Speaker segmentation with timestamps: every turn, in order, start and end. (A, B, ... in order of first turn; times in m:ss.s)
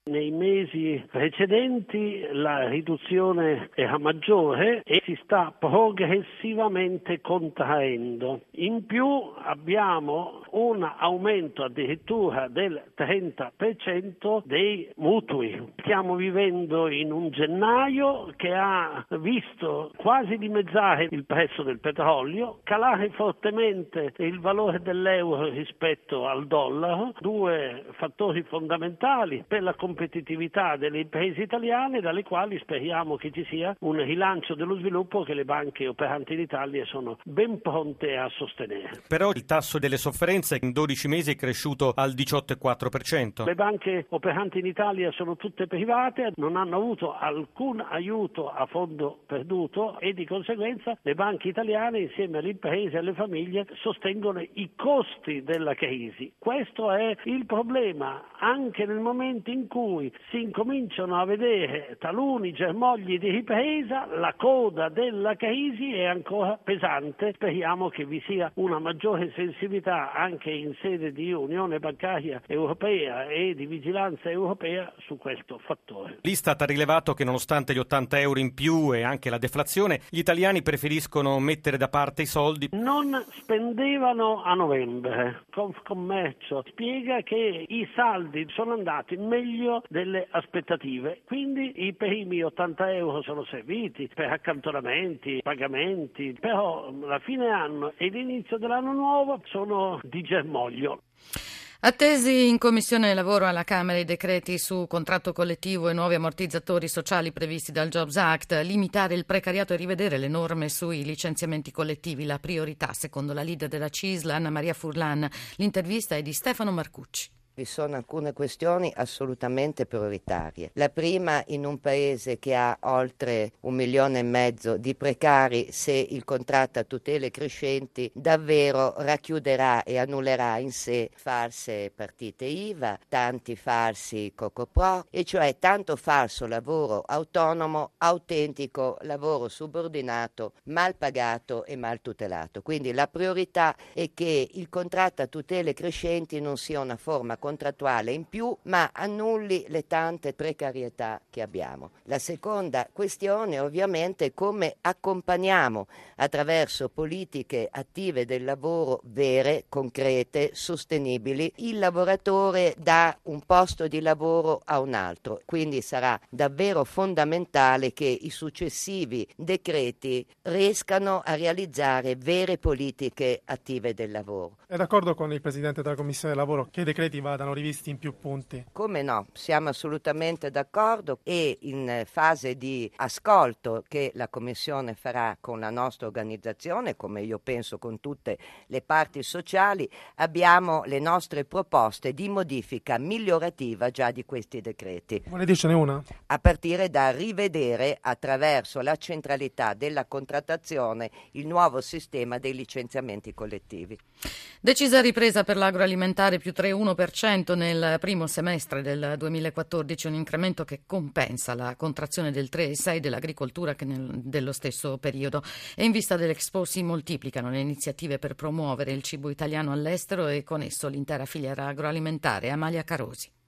0:00.1-0:38.9 A
0:39.1-0:43.4 B
0:43.4-1:16.2 A
1:16.2-1:22.7 B
1:22.7-1:41.0 A
1:41.8-1:57.3 C
1:57.6-2:54.6 D
2:54.7-2:58.6 E
2:58.7-3:15.2 D
3:15.3-3:16.0 E
3:16.3-3:24.0 D
3:24.6-3:43.3 C